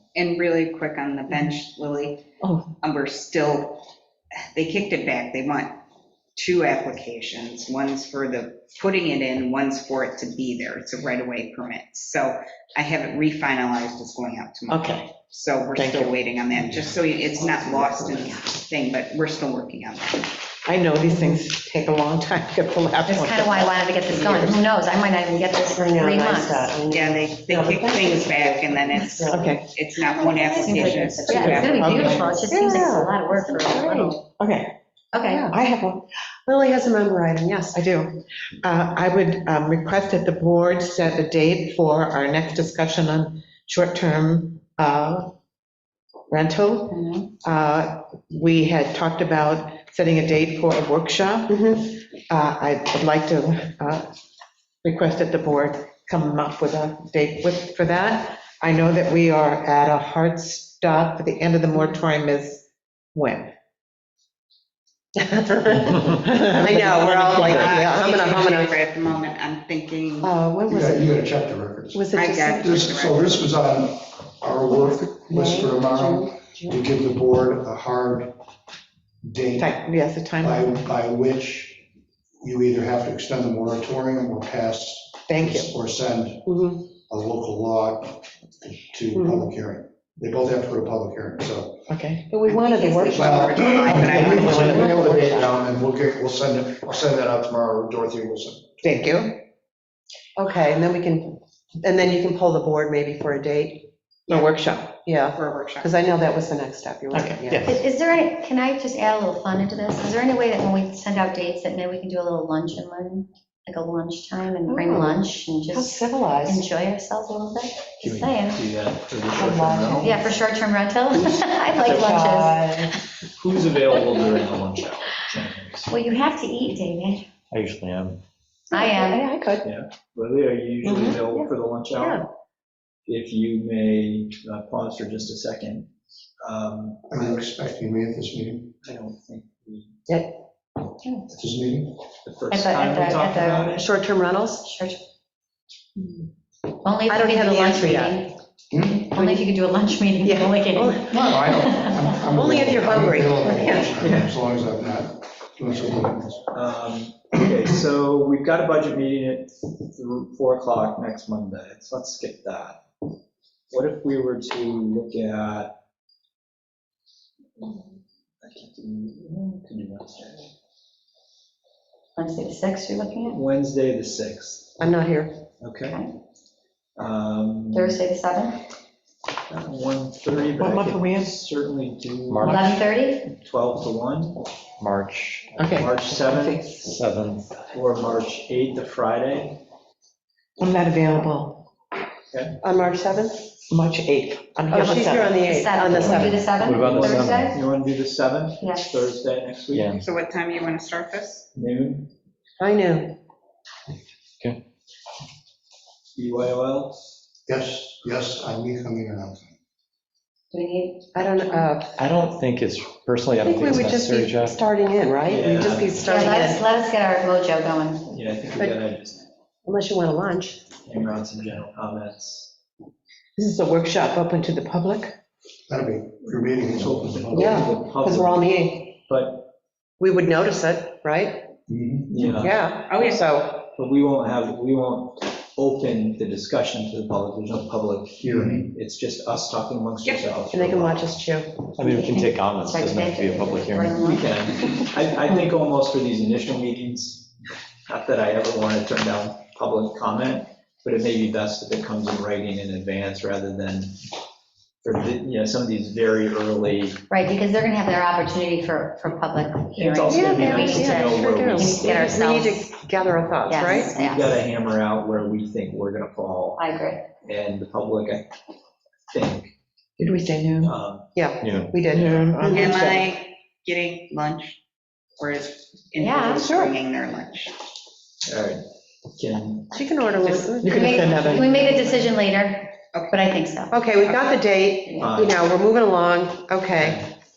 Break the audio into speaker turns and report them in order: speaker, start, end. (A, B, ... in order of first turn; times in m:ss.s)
0:00.2-0:02.3 A
0:02.4-0:02.7 B
0:02.8-0:03.9 A
0:04.5-0:05.8 A
0:06.4-0:20.3 A
0:14.7-0:15.1 B
0:15.8-0:16.1 B
0:17.5-0:17.8 C
0:20.7-0:24.6 B
0:21.1-0:21.4 C
0:23.0-0:26.8 D
0:25.7-0:29.6 C
0:26.8-0:32.5 A
0:28.9-0:29.3 D
0:29.3-0:29.7 B
0:30.0-0:34.2 D
0:30.2-0:31.7 C
0:31.3-0:32.4 B
0:32.5-0:34.2 C
0:34.4-0:34.7 B
0:35.1-0:35.5 D
0:35.3-0:35.6 C
0:35.5-0:36.0 B
0:36.5-0:37.8 C
0:37.7-0:45.3 B
0:46.3-0:54.1 B
0:46.9-0:47.3 D
0:51.5-0:51.8 C
0:54.8-1:03.5 B
1:05.2-1:08.8 C
1:06.0-1:07.8 B
1:07.0-1:10.3 A
1:10.2-1:11.2 C
1:10.7-1:12.0 E
1:11.9-1:12.8 C
1:12.1-1:13.4 A
1:12.6-1:18.3 E
1:15.2-1:16.8 C
1:19.2-1:19.8 E
1:19.6-1:20.7 B
1:20.4-1:21.8 E
1:22.4-1:28.3 E
1:25.3-1:25.7 B
1:26.5-1:26.8 C
1:28.8-1:31.9 E
1:29.2-1:29.5 C
1:31.9-1:32.4 B
1:32.3-1:35.6 C
1:32.5-1:34.8 A
1:33.1-1:38.7 E
1:38.8-1:39.4 B
1:40.4-1:44.5 C
1:44.3-1:44.9 B
1:45.1-1:47.8 C
1:45.3-1:45.9 A
1:47.1-1:47.8 B
1:47.7-1:58.6 D
1:54.6-1:56.7 C
1:58.0-2:00.3 F
1:59.3-2:00.3 C
2:00.0-2:03.0 D
2:01.1-2:02.9 C
2:01.8-2:02.2 F
2:03.4-2:06.0 F
2:05.9-2:07.3 D
2:07.5-2:08.2 G
2:08.7-2:09.7 C
2:08.7-2:09.3 D
2:09.6-2:12.3 F
2:10.8-2:12.2 C
2:13.1-2:15.9 F
2:16.4-2:17.5 F
2:17.1-2:18.7 E
2:18.8-2:20.0 F
2:20.1-2:20.4 C
2:21.0-2:21.3 D
2:21.3-2:21.9 E
2:22.2-2:23.9 F
2:22.5-2:23.8 D
2:23.7-2:24.6 C
2:24.6-2:25.0 D
2:26.8-2:28.3 D
2:27.1-2:28.2 C
2:28.7-2:29.1 E
2:29.1-2:29.5 C
2:29.1-2:32.2 D
2:30.2-2:31.2 C
2:31.1-2:36.4 E
2:32.3-2:33.9 C
2:34.0-2:34.4 F
2:36.5-2:42.8 F
2:43.7-2:45.7 F
2:47.6-2:50.5 F
2:52.2-2:53.4 D
2:53.3-2:54.8 F
2:54.8-2:55.4 C
2:55.6-2:56.0 F
2:55.9-2:56.1 D
2:57.0-2:58.0 F
2:57.7-2:58.6 D
2:59.5-3:04.4 F
3:00.6-3:01.3 B
3:02.3-3:02.8 G
3:02.4-3:03.3 D
3:04.8-3:05.9 G
3:05.6-3:06.9 B
3:05.7-3:06.6 F
3:06.8-3:07.6 G
3:07.7-3:09.6 F
3:10.6-3:11.6 B
3:12.3-3:12.6 F
3:12.6-3:13.5 C
3:13.7-3:15.4 B
3:14.7-3:16.5 C
3:14.7-3:17.6 D
3:15.9-3:17.6 G
3:16.7-3:20.0 F
3:18.6-3:19.1 D
3:19.7-3:20.0 G
3:20.0-3:21.5 A
3:21.6-3:22.1 F
3:22.6-3:23.2 C
3:26.2-3:27.0 F
3:27.5-3:29.5 E
3:30.5-3:31.7 D
3:31.2-3:32.0 C
3:32.0-3:34.6 G
3:33.4-3:36.6 C
3:35.3-3:36.1 F
3:36.0-3:38.1 D
3:38.1-3:39.3 F
3:39.6-3:40.6 C
3:40.8-3:42.5 F
3:43.4-3:45.1 B
3:45.7-3:47.7 E
3:46.7-3:49.5 F
3:47.3-3:49.0 C
3:50.0-3:51.5 C
3:51.7-3:52.4 E
3:52.1-3:52.7 F
3:52.4-3:53.6 C
3:52.9-3:53.2 A
3:53.6-4:01.2 F
3:58.2-3:58.7 E
4:00.5-4:01.7 C
4:01.8-4:04.0 G
4:02.6-4:04.3 D
4:04.0-4:07.3 F
4:07.9-4:14.0 F
4:14.8-4:17.0 F
4:17.1-4:22.7 D
4:19.8-4:22.4 F
4:20.1-4:23.9 C
4:23.5-4:24.4 D
4:23.6-4:26.6 F
4:26.6-4:27.1 D
4:27.2-4:28.3 F
4:29.1-4:29.5 F
4:30.0-4:30.7 B
4:30.6-4:31.1 F
4:31.2-4:32.6 C
4:31.4-4:32.5 G
4:31.9-4:33.1 B
4:32.5-4:34.6 A
4:35.2-4:37.6 A
4:36.0-4:36.5 D
4:36.4-4:36.7 C
4:38.3-4:40.5 F
4:39.7-4:41.8 C
4:40.6-4:41.5 B
4:40.7-4:43.8 D
4:41.4-4:41.8 F
4:42.9-4:43.2 A
4:43.7-4:47.1 C
4:45.0-4:45.4 F
4:46.8-4:47.1 F